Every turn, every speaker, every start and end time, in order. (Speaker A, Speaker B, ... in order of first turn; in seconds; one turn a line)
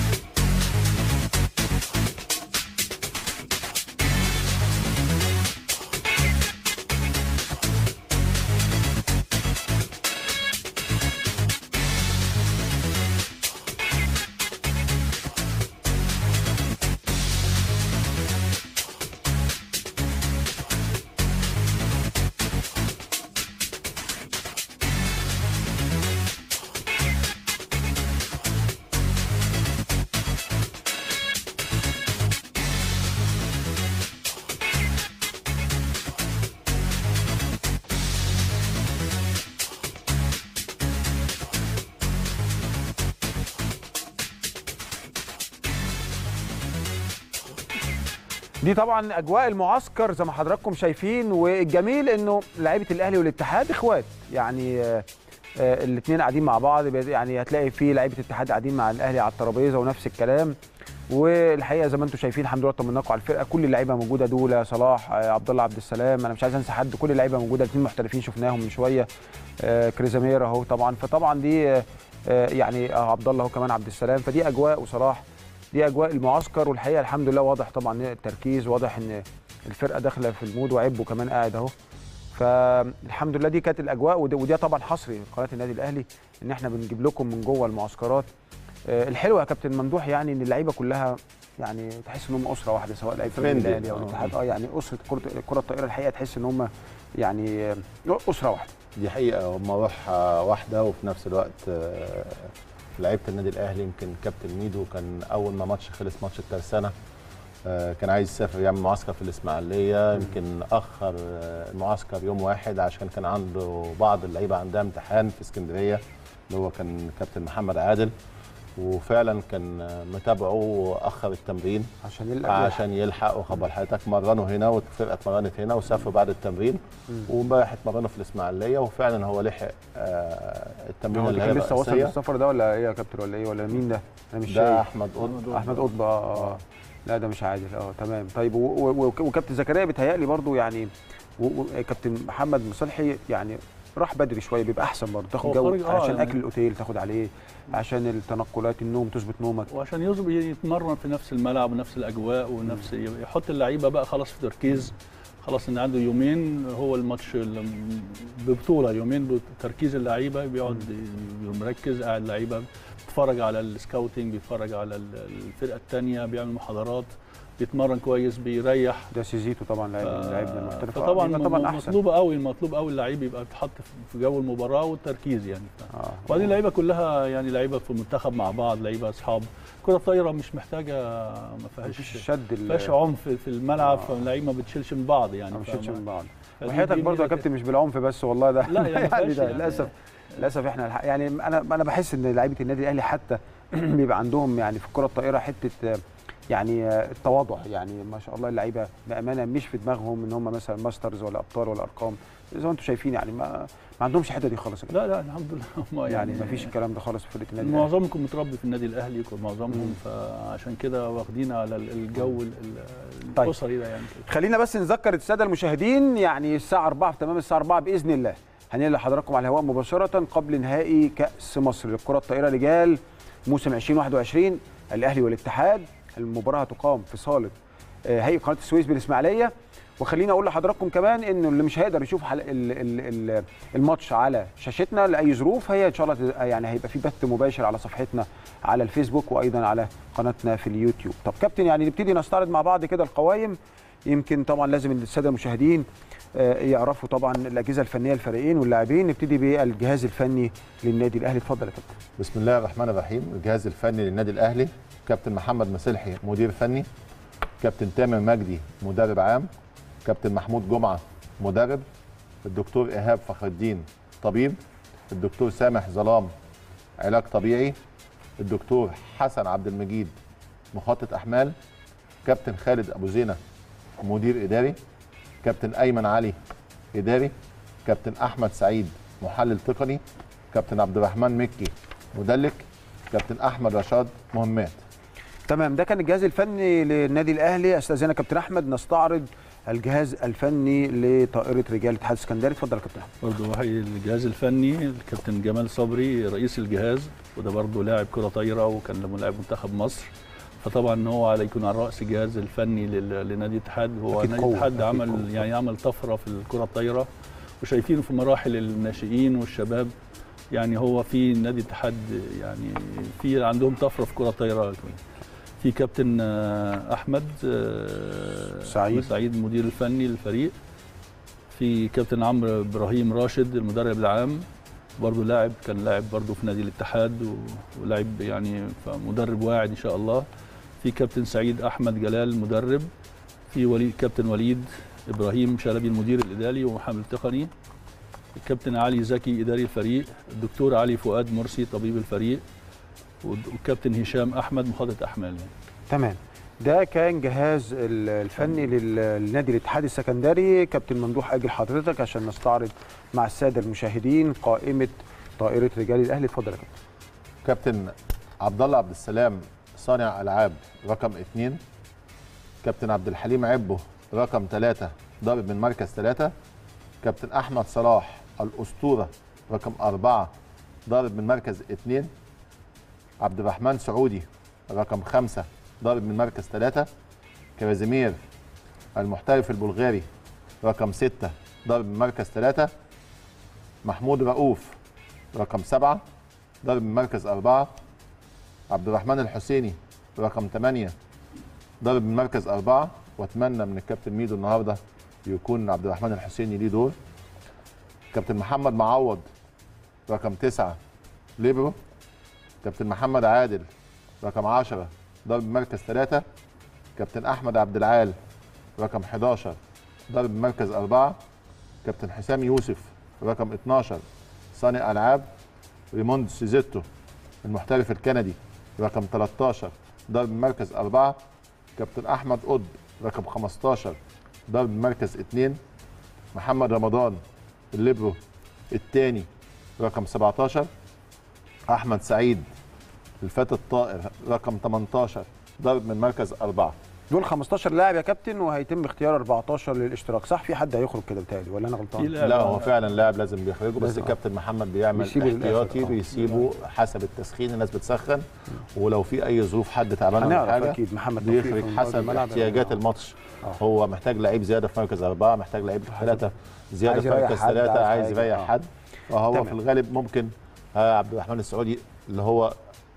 Speaker A: 48.6-55.1
Speaker A: 55.6-60.6
Speaker A: 61.1-69.1
Speaker A: 69.6-81.7
Speaker A: 82.3-88.3
Speaker A: 88.9-98.7
Speaker B: 93.4-94.3
Speaker B: 99.0-106.9
Speaker B: 107.6-118.1
Speaker B: 118.8-121.9
Speaker A: 122.0-122.8
Speaker B: 122.4-132.2
Speaker A: 131.1-134.9
Speaker B: 134.5-135.7
Speaker C: 135.4-135.8
Speaker A: 135.5-149.7
Speaker C: 145.4-146.4
Speaker C: 149.7-169.1
Speaker A: 169.1-172.0
Speaker C: 170.0-186.0
Speaker A: 175.9-176.6
Speaker A: 181.8-182.9
Speaker A: 183.8-184.1
Speaker A: 185.5-205.0
Speaker C: 186.6-187.4
Speaker C: 188.7-189.9
Speaker C: 204.9-206.7
Speaker A: 206.1-207.9
Speaker C: 207.6-214.2
Speaker A: 214.2-227.5
Speaker A: 228.1-251.9
Speaker B: 252.2-256.9
Speaker B: 257.6-259.5
Speaker B: 260.0-261.8
Speaker B: 262.4-264.6
Speaker B: 265.1-266.3
Speaker B: 267.0-267.8
Speaker B: 268.4-270.1
Speaker B: 270.7-271.5
Speaker B: 272.2-273.4
Speaker B: 274.0-274.8
Speaker B: 275.4-276.4
Speaker B: 276.9-277.3
Speaker B: 277.9-284.8
Speaker A: 285.5-293.1
Speaker C: 293.2-307.1
Speaker A: 304.1-305.4
Speaker C: 307.6-309.9
Speaker C: 310.5-315.0
Speaker C: 315.6-320.5
Speaker A: 318.6-319.1
Speaker C: 321.5-324.4
Speaker C: 325.0-330.2
Speaker C: 330.8-332.9
Speaker C: 333.5-337.5
Speaker C: 338.4-342.4
Speaker C: 343.2-345.5
Speaker A: 345.9-356.8
Speaker B: 357.4-361.6
Speaker B: 362.6-366.3
Speaker B: 367.0-370.3
Speaker B: 370.9-372.1
Speaker B: 373.2-376.9
Speaker B: 377.6-378.2
Speaker B: 378.9-380.1
Speaker B: 380.6-382.7
Speaker B: 383.8-384.8
Speaker B: 385.3-386.0
Speaker B: 386.6-387.7
Speaker B: 388.7-390.9
Speaker B: 391.8-396.9
Speaker B: 398.1-399.3
Speaker B: 400.1-400.8
Speaker B: 401.4-401.8
Speaker B: 402.6-403.7
Speaker B: 404.2-406.2
Speaker B: 406.9-408.1
Speaker B: 408.8-409.6
Speaker B: 410.1-411.2
Speaker B: 411.8-415.3
Speaker B: 415.9-416.9
Speaker B: 417.4-421.2
Speaker B: 421.8-425.6
Speaker B: 426.3-427.2
Speaker B: 427.7-428.2
Speaker B: 428.7-429.3
Speaker B: 429.8-430.7
Speaker B: 431.7-432.5
Speaker B: 433.2-436.8
Speaker A: 437.1-442.1
Speaker C: 442.0-442.7
Speaker B: 442.2-462.6
Speaker A: 443.8-444.1
Speaker A: 444.9-446.2
Speaker A: 450.2-452.8
Speaker A: 456.9-458.5